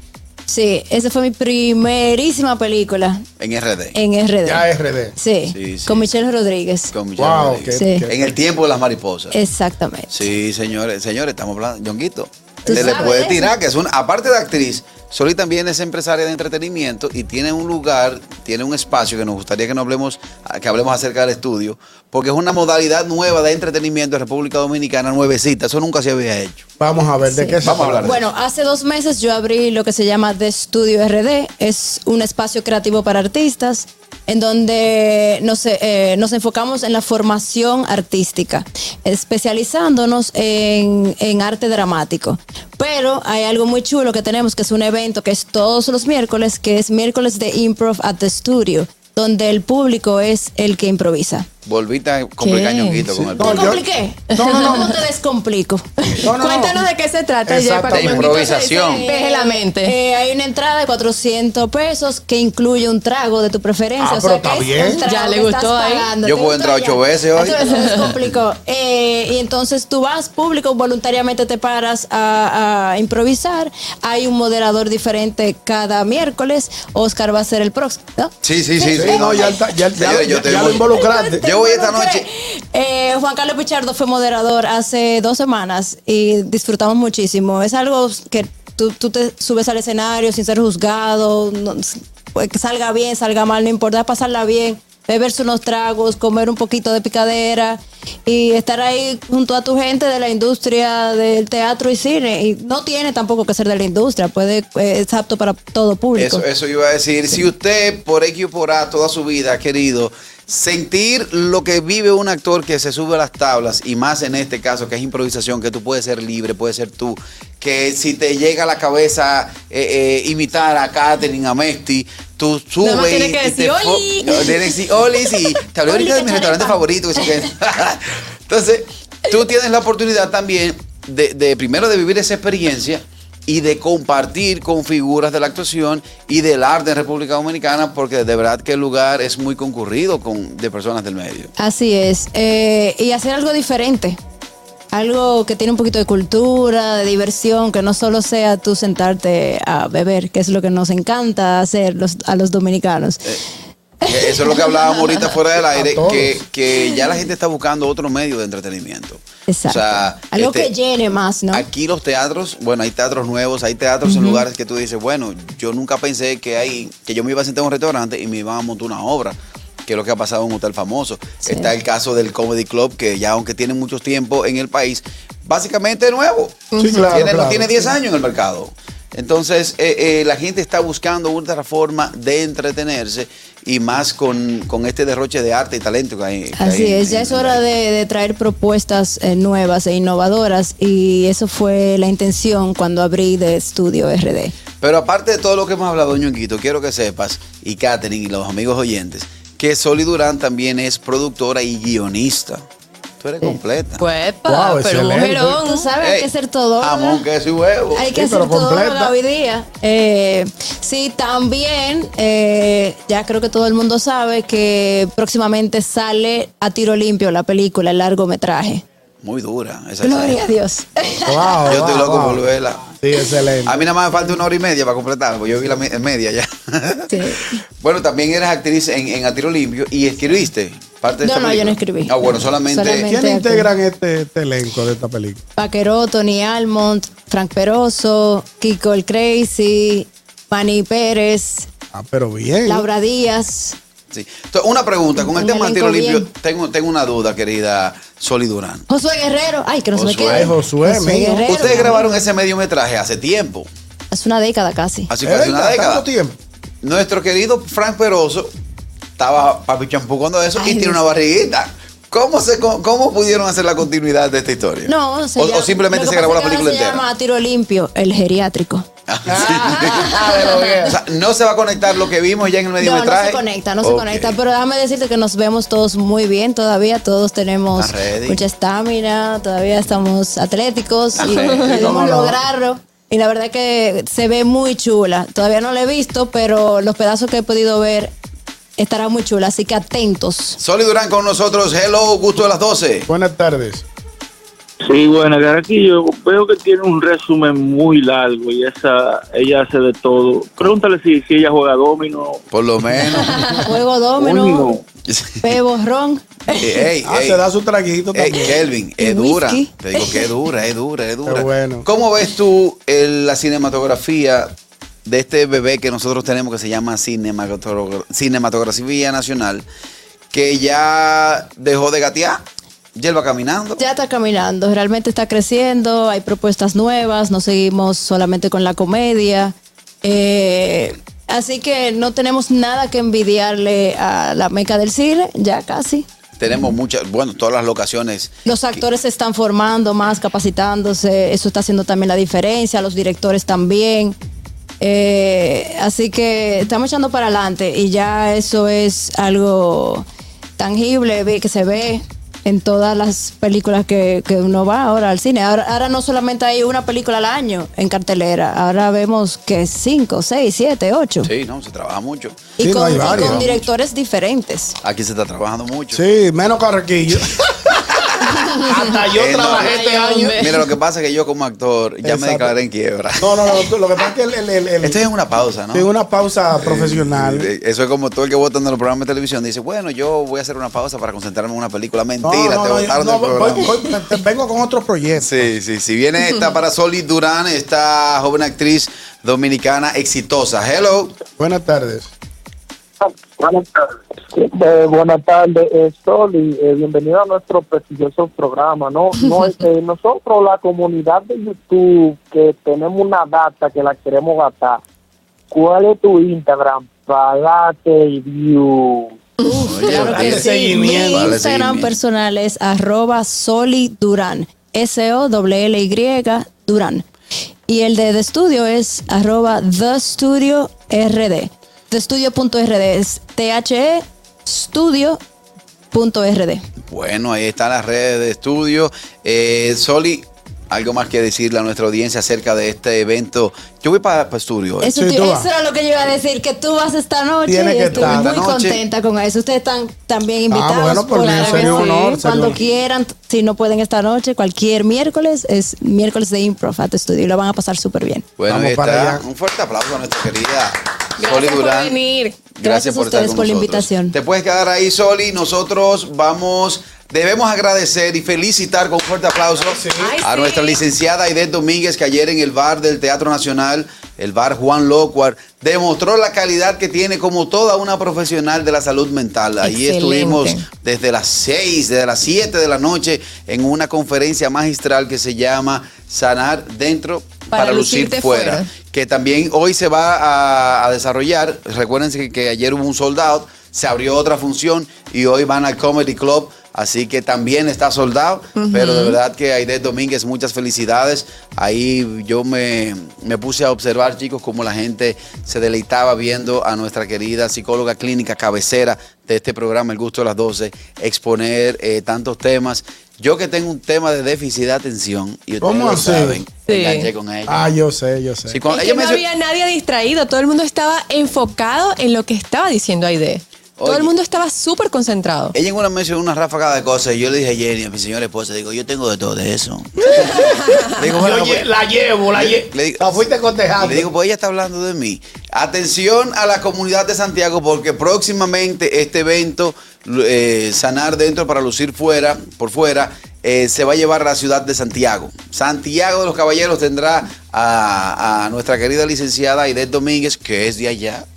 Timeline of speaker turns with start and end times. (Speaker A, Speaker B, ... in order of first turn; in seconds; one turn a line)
Speaker A: 0.5-3.2
Speaker B: 3.4-4.0
Speaker A: 3.9-6.9
Speaker C: 4.5-5.2
Speaker B: 5.5-6.1
Speaker B: 6.9-9.4
Speaker C: 7.2-8.3
Speaker A: 7.7-8.1
Speaker A: 9.3-10.3
Speaker B: 10.1-26.7
Speaker C: 12.7-13.1
Speaker A: 12.7-13.5
Speaker C: 26.8-28.2
Speaker A: 27.3-51.5
Speaker B: 27.6-28.2
Speaker B: 51.7-53.8
Speaker D: 52.4-53.1
Speaker C: 53.3-54.9
Speaker A: 53.4-56.3
Speaker C: 56.2-56.8
Speaker D: 56.3-59.9
Speaker C: 57.5-58.5
Speaker B: 57.9-59.0
Speaker A: 58.8-79.6
Speaker C: 64.0-65.0
Speaker D: 65.0-66.1
Speaker B: 66.2-68.2
Speaker D: 67.7-68.1
Speaker B: 78.4-82.3
Speaker C: 78.9-81.5
Speaker A: 80.5-106.5
Speaker B: 106.2-141.5
Speaker D: 122.8-124.8
Speaker A: 125.9-126.8
Speaker A: 141.6-144.2
Speaker A: 144.9-153.4
Speaker B: 154.1-160.7
Speaker A: 154.1-154.8
Speaker C: 155.7-156.4
Speaker A: 159.5-161.7
Speaker B: 161.5-187.6
Speaker D: 164.1-164.4
Speaker A: 171.4-171.7
Speaker D: 176.7-177.1
Speaker C: 176.8-177.8
Speaker A: 186.6-194.5
Speaker B: 194.8-202.6
Speaker B: 203.2-204.1
Speaker D: 204.0-205.9
Speaker C: 204.5-205.6
Speaker A: 205.6-207.2
Speaker B: 206.0-206.3
Speaker B: 206.8-208.1
Speaker A: 207.9-218.8
Speaker C: 208.1-209.1
Speaker B: 219.2-220.4
Speaker A: 220.0-221.7
Speaker C: 221.3-222.4
Speaker B: 221.7-222.9
Speaker C: 223.0-223.8
Speaker B: 223.7-233.1
Speaker A: 227.1-227.6
Speaker A: 231.2-233.7
Speaker C: 232.8-235.4
Speaker A: 235.6-241.7
Speaker C: 241.9-242.9
Speaker A: 242.7-243.8
Speaker B: 244.1-248.8
Speaker A: 245.2-246.3
Speaker A: 248.9-252.1
Speaker B: 249.9-250.5
Speaker C: 250.3-251.6
Speaker B: 251.5-253.7
Speaker A: 254.1-255.1
Speaker B: 255.1-256.1
Speaker C: 255.2-256.4
Speaker B: 256.8-258.5
Speaker B: 259.2-267.0
Speaker A: 260.6-261.0
Speaker A: 264.9-268.9
Speaker B: 269.1-274.4
Speaker C: 269.3-271.0
Speaker A: 272.8-288.1
Speaker B: 277.8-278.4
Speaker B: 281.2-282.0
Speaker D: 281.2-281.9
Speaker C: 281.7-282.4
Speaker A: 288.8-290.6
Speaker B: 290.6-293.1
Speaker C: 293.1-293.9
Speaker E: 294.8-302.4
Speaker B: 302.5-303.4
Speaker A: 303.4-304.8
Speaker E: 304.2-304.8
Speaker B: 305.1-305.6
Speaker A: 305.4-306.8
Speaker B: 306.5-307.4
Speaker C: 307.0-308.6
Speaker B: 308.1-319.7
Speaker A: 309.0-310.3
Speaker C: 311.2-311.9
Speaker B: 320.3-322.4
Speaker B: 322.9-323.8
Speaker A: 323.8-336.1
Speaker B: 336.4-338.8
Speaker A: 338.4-344.1
Speaker A: 344.8-350.1
Speaker A: 350.6-361.3
Speaker B: 361.2-363.7
Speaker A: 362.6-364.8
Speaker C: 362.6-363.5
Speaker B: 364.8-366.0
Speaker C: 365.9-370.4
Speaker B: 369.1-373.6
Speaker D: 369.6-370.6
Speaker C: 372.0-372.6
Speaker C: 373.2-375.0
Speaker B: 374.8-375.9
Speaker C: 375.7-377.5
Speaker B: 376.6-383.9
Speaker C: 382.2-385.5
Speaker B: 385.2-391.2
Speaker C: 391.4-392.1
Speaker F: 393.0-404.8
Speaker F: 405.5-409.2
Speaker A: 409.5-417.1
Speaker B: 409.5-410.5
Speaker C: 410.0-411.4
Speaker B: 411.1-411.9
Speaker A: 417.7-425.2
Speaker A: 425.9-426.6
Speaker B: 426.9-434.9
Speaker A: 434.8-448.3
Speaker C: 434.9-435.5
Speaker C: 437.5-438.4
Speaker B: 437.9-438.8
Speaker C: 440.5-442.6
Speaker D: 441.2-442.2
Speaker B: 448.4-452.0
Speaker C: 448.5-449.2
Speaker D: 451.2-452.4
Speaker B: 452.6-507.7
Speaker A: 452.6-454.1
Speaker C: 459.6-460.2
Speaker D: 459.9-460.8
Speaker D: 469.6-470.7
Speaker D: 477.5-478.7
Speaker D: 488.6-489.2
Speaker C: 505.6-506.4
Speaker D: 506.7-507.1
Speaker C: 507.5-508.6
Speaker B: 508.5-509.2
Speaker D: 508.7-515.5
Speaker B: 513.8-514.1
Speaker B: 515.5-521.7
Speaker C: 520.0-524.1
Speaker B: 522.3-523.2
Speaker B: 523.8-541.3